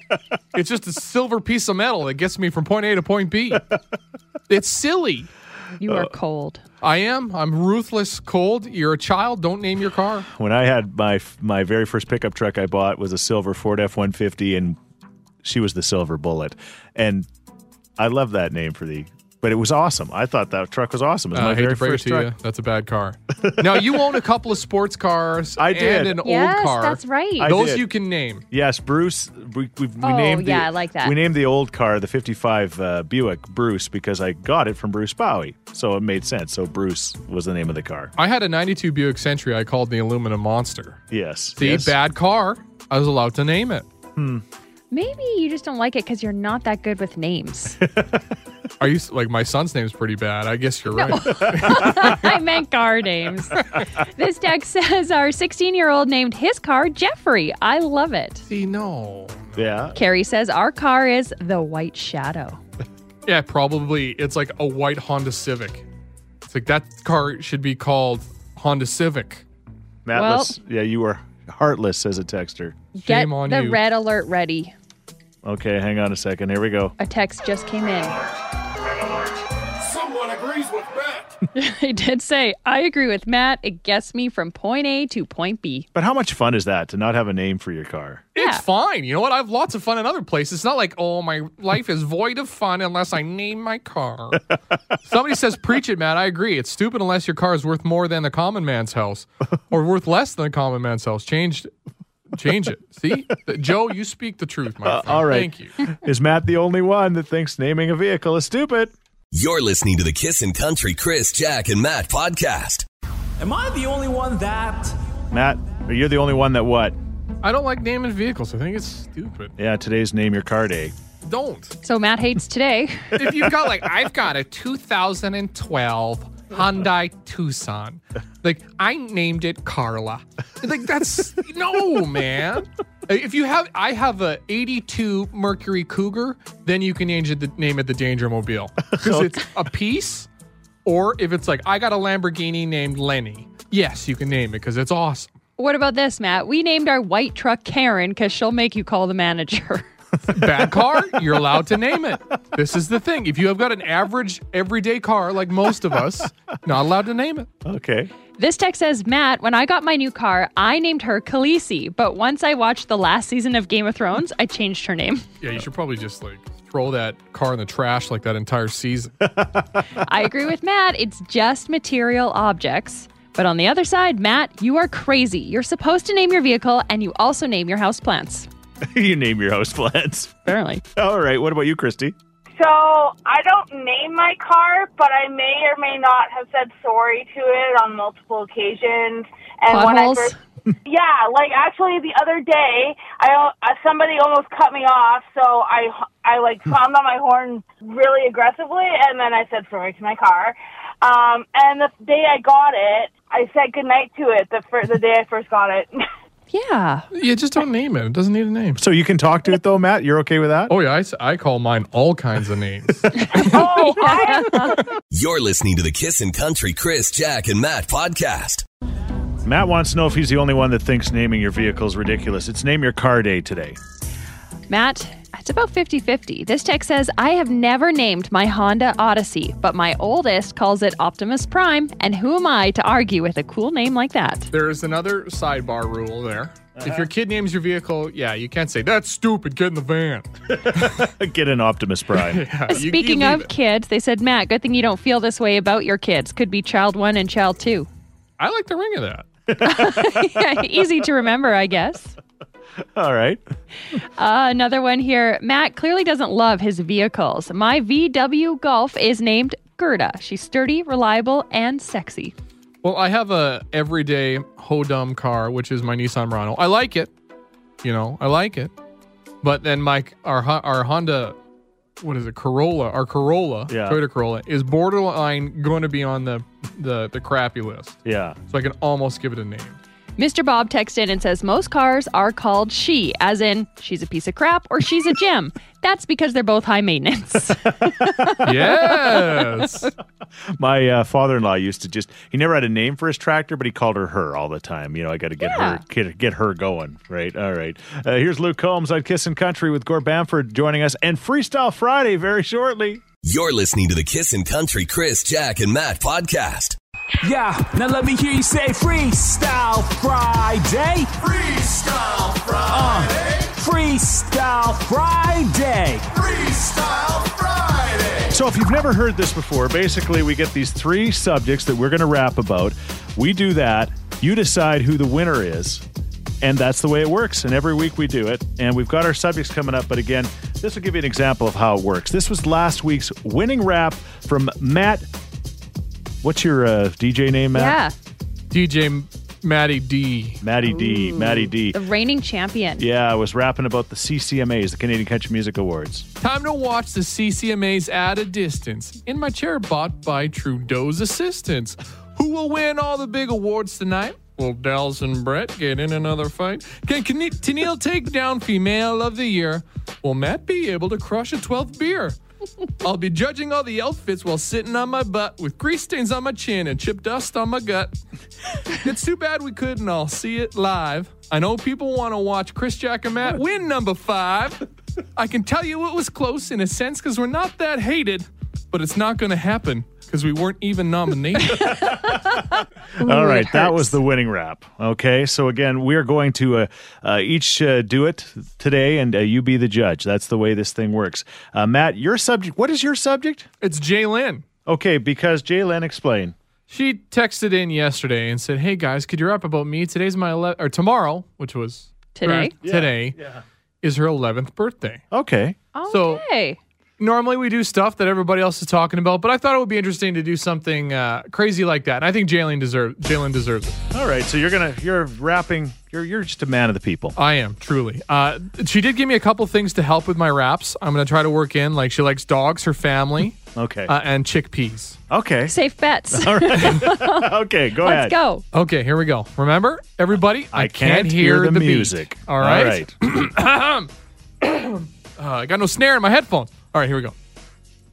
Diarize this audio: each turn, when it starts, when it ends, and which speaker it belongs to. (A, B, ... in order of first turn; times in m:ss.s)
0:00.5-0:03.7 A
0:04.5-0:05.3 A
0:05.8-0:06.6 B
0:06.8-0:10.3 A
0:10.3-0:14.8 C
0:15.4-0:17.3 C
0:18.0-0:22.3 C
0:21.3-0:28.4 A
0:23.4-0:24.0 C
0:25.6-0:26.2 C
0:26.2-0:27.6 B
0:27.4-0:27.9 C
0:28.5-0:38.1 C
0:30.0-0:31.2 B
0:38.2-0:41.0 A
0:41.1-0:42.0 C
0:41.6-0:43.9 A
0:44.2-0:44.4 C
0:44.9-0:47.8 B
0:48.8-0:52.3 A
0:50.9-0:58.4 B
0:58.5-0:59.7 A
0:59.6-1:00.0 C
1:00.0-1:02.6 B
1:03.3-1:05.9 A
1:06.5-1:09.4 A
1:10.1-1:12.8 C
1:10.1-1:10.6 B
1:13.0-1:14.7 B
1:13.0-1:13.8 A
1:15.4-1:17.0 C
1:17.0-1:18.2 B
1:19.8-1:21.2 A
1:21.5-1:25.9 B
1:26.0-1:28.2 C
1:28.4-1:34.5 A
1:28.4-1:28.6 B
1:35.0-1:41.7 A
1:42.3-1:45.8 A
1:44.8-1:48.9 C
1:49.3-1:52.8 D
1:53.4-1:55.0 E
1:55.3-1:57.0 C
1:57.4-1:59.6 A
1:59.6-2:00.9 C
2:01.2-2:01.8 A
2:01.8-2:03.2 B
2:03.2-2:20.3 A
2:18.9-2:19.4 C
2:20.8-2:25.3 A
2:25.6-2:29.9 B
2:30.3-2:37.5 A
2:37.6-2:38.1 C
2:38.4-2:45.3 B
2:45.4-2:49.3 A
2:49.3-2:49.9 C
2:50.0-2:58.5 B
2:58.8-3:00.4 C
3:00.4-3:00.8 B
3:01.0-3:02.2 C
3:02.6-3:10.3 F
3:09.7-3:10.4 B
3:10.8-3:25.9 F
3:26.5-3:27.1 B
3:27.1-3:28.8 A
3:28.8-3:30.7 C
3:30.7-3:33.6 A
3:33.2-3:34.8 B
3:33.3-3:34.8 F
3:35.1-3:38.6 D
3:39.4-3:43.8 C
3:44.7-3:54.5 B
3:54.5-4:01.0 A
3:56.8-3:57.1 C
4:00.5-4:02.5 C
4:02.2-4:03.5 A
4:02.7-4:07.9 B
4:08.4-4:09.3 A
4:09.6-4:12.2 B
4:09.6-4:10.6 C
4:13.0-4:13.4 C
4:14.0-4:22.3 B
4:22.8-4:27.1 A
4:27.8-4:28.7 A
4:29.4-4:31.4 A
4:32.0-4:39.8 A
4:33.7-4:34.0 C
4:38.0-4:38.4 C
4:40.2-4:49.6 B
4:47.8-4:48.4 C
4:48.4-4:49.9 A
4:50.6-5:03.0 C
4:55.4-4:55.8 B
5:03.2-5:06.8 D
5:07.2-5:18.3 E
5:18.3-5:25.8 C
5:26.4-5:35.1 C
5:36.2-5:37.8 C
5:37.5-5:37.9 B
5:38.5-5:40.4 A
5:40.4-5:41.8 C
5:40.7-5:42.8 B
5:42.8-5:46.1 C
5:46.2-6:02.2 A
6:02.8-6:08.0 A
6:08.7-6:14.6 A
6:15.2-6:21.9 A
6:21.6-6:24.0 B
6:23.0-6:33.5 C
6:33.6-6:34.4 A
6:34.7-6:36.4 C
6:36.7-6:43.2 A
6:42.2-6:42.5 B
6:42.6-6:43.4 C
6:43.8-6:45.0 A
6:45.1-6:45.6 C
6:45.8-6:46.6 B
6:45.9-6:46.2 A
6:47.0-6:53.8 A
6:53.9-6:57.2 C
6:57.2-7:05.0 A
7:03.6-7:04.0 C
7:05.1-7:05.6 C
7:05.5-7:08.4 B
7:06.1-7:08.2 C
7:08.5-7:13.9 A
7:10.5-7:12.9 C
7:14.4-7:17.2 A